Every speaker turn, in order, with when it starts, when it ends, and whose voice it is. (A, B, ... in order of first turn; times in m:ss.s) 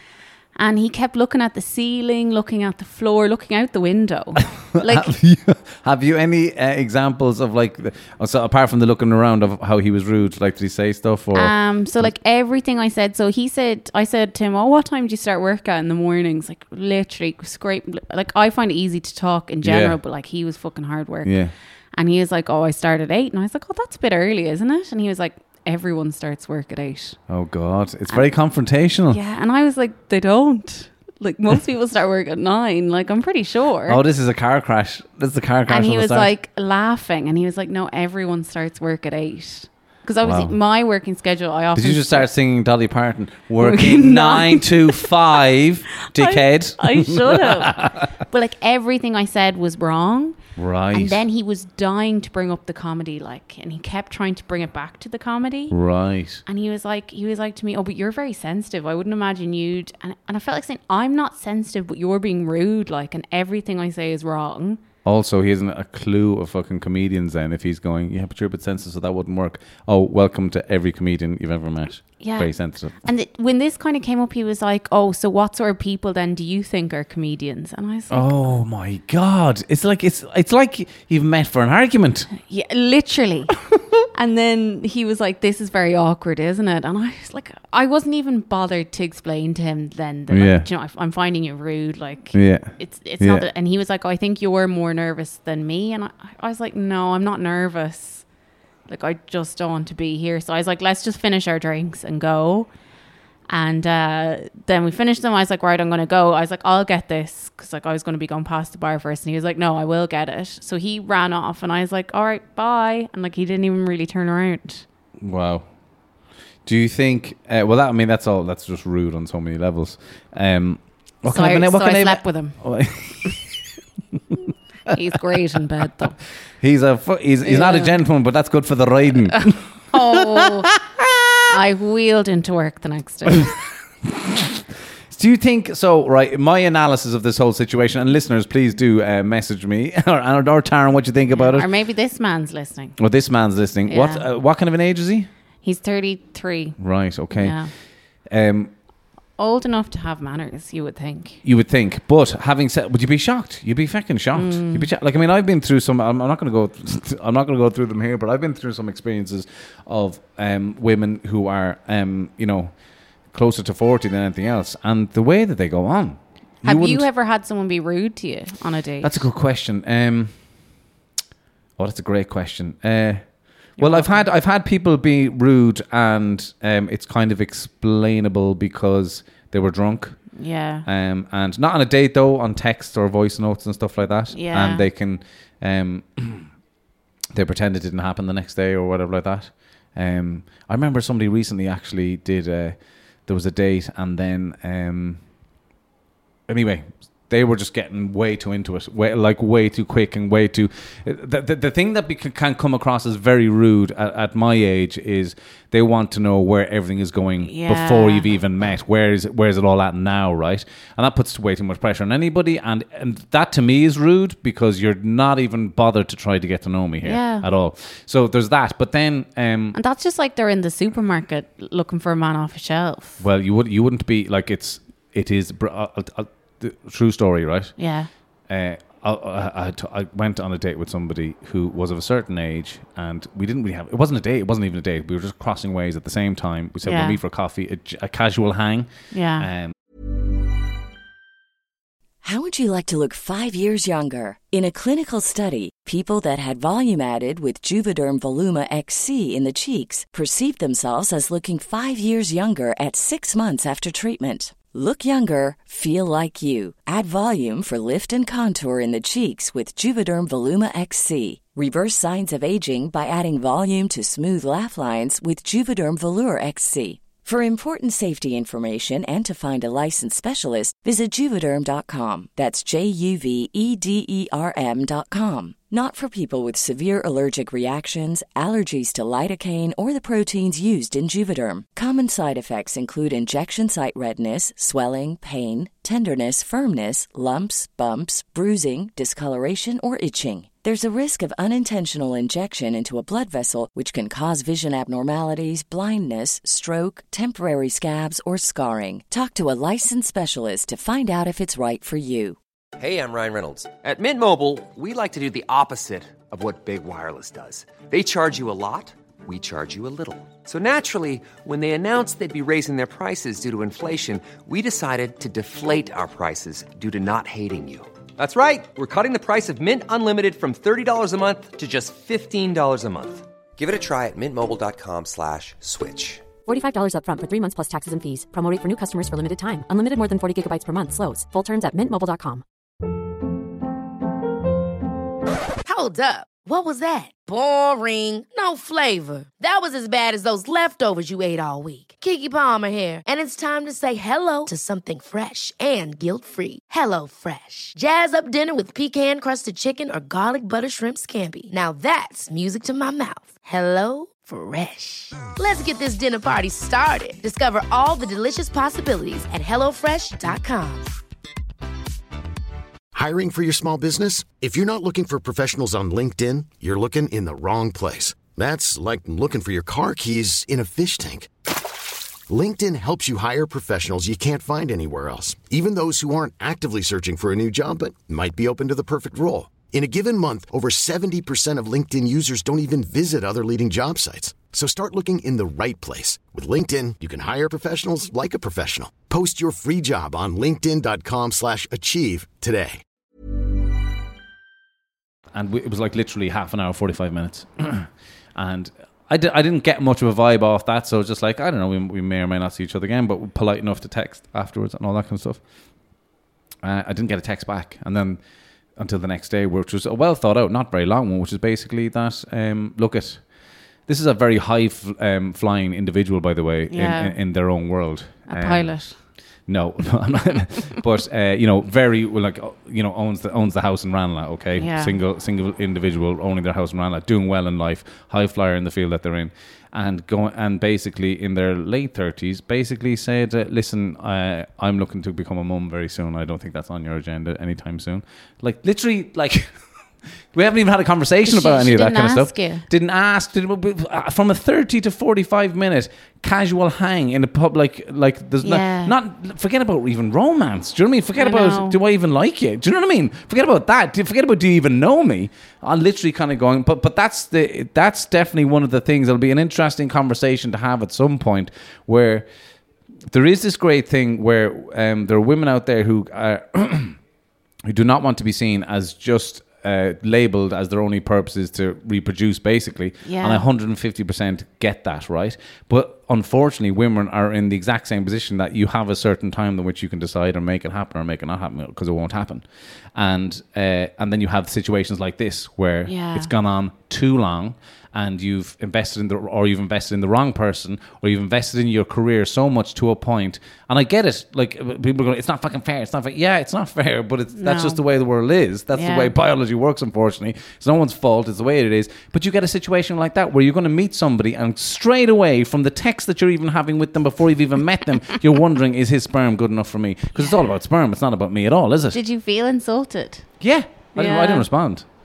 0:00.6-0:05.1 A
0:04.8-0:12.1 B
0:11.3-0:21.4 A
0:19.6-0:20.0 B
0:21.2-0:21.5 B
0:22.0-0:27.2 A
0:27.3-0:29.2 B
0:29.1-0:34.0 A
0:33.9-0:36.3 B
0:35.7-0:42.3 A
0:40.2-0:40.6 B
0:41.8-0:48.1 B
0:43.6-0:45.1 A
0:46.1-0:50.4 A
0:50.6-0:51.2 B
0:50.9-0:55.8 A
0:55.7-0:56.4 B
0:56.5-1:04.8 A
1:05.0-1:13.1 B
1:12.2-1:18.4 A
1:18.1-1:22.3 B
1:22.4-1:23.5 A
1:24.1-1:38.3 A
1:30.3-1:30.7 B
1:32.3-1:33.5 B
1:38.9-1:42.7 A
1:43.5-1:54.8 A
1:55.2-1:55.7 B
1:56.6-2:03.6 B
2:01.3-2:02.6 A
2:04.9-2:06.2 A
2:06.6-2:11.4 B
2:07.4-2:08.0 A
2:09.9-2:10.7 A
2:11.5-2:13.5 A
2:14.1-2:21.7 B
2:21.3-2:23.0 A
2:23.0-2:25.3 B
2:23.9-2:24.2 A
2:25.6-2:26.8 A
2:26.8-2:27.6 B
2:27.3-2:27.7 A
2:28.3-2:28.7 B
2:29.4-2:31.4 A
2:31.4-2:42.7 B
2:34.3-2:34.9 A
2:43.3-2:47.1 B
2:46.6-2:49.3 A
2:49.0-2:50.3 B
2:51.8-3:00.2 B
2:53.8-2:54.3 A
3:00.4-3:00.9 A
3:00.9-3:06.5 B
3:04.3-3:04.9 A
3:07.3-3:15.2 B
3:16.5-3:39.8 B
3:27.4-3:28.3 A
3:37.0-3:37.5 A
3:39.7-3:43.2 A
3:43.2-3:47.7 B
3:47.8-3:48.1 A
3:48.5-3:59.8 B
3:56.8-3:57.2 A
3:59.1-3:59.5 A
4:02.2-5:02.4 C
5:02.8-5:26.3 D
5:26.4-5:32.4 E
5:35.6-6:00.9 F
6:02.9-6:11.3 G
6:12.3-6:32.8 G
6:35.3-6:45.4 B
6:46.6-6:48.2 B
6:48.8-6:53.2 B
6:53.9-6:58.8 B
6:56.7-6:57.2 A
6:58.3-6:59.0 A
6:59.5-7:19.5 B
7:04.6-7:05.0 A
7:20.3-7:42.3 B
7:21.3-7:22.7 A
7:28.4-7:29.0 A
7:31.2-7:31.8 A
7:43.1-7:47.0 B
7:47.7-8:32.0 B
7:53.0-7:53.4 A
8:05.9-8:06.3 A
8:17.4-8:17.8 A
8:18.7-8:19.1 A
8:30.2-8:30.4 A
8:31.9-8:33.3 A
8:33.4-8:34.9 B
8:34.0-8:34.5 A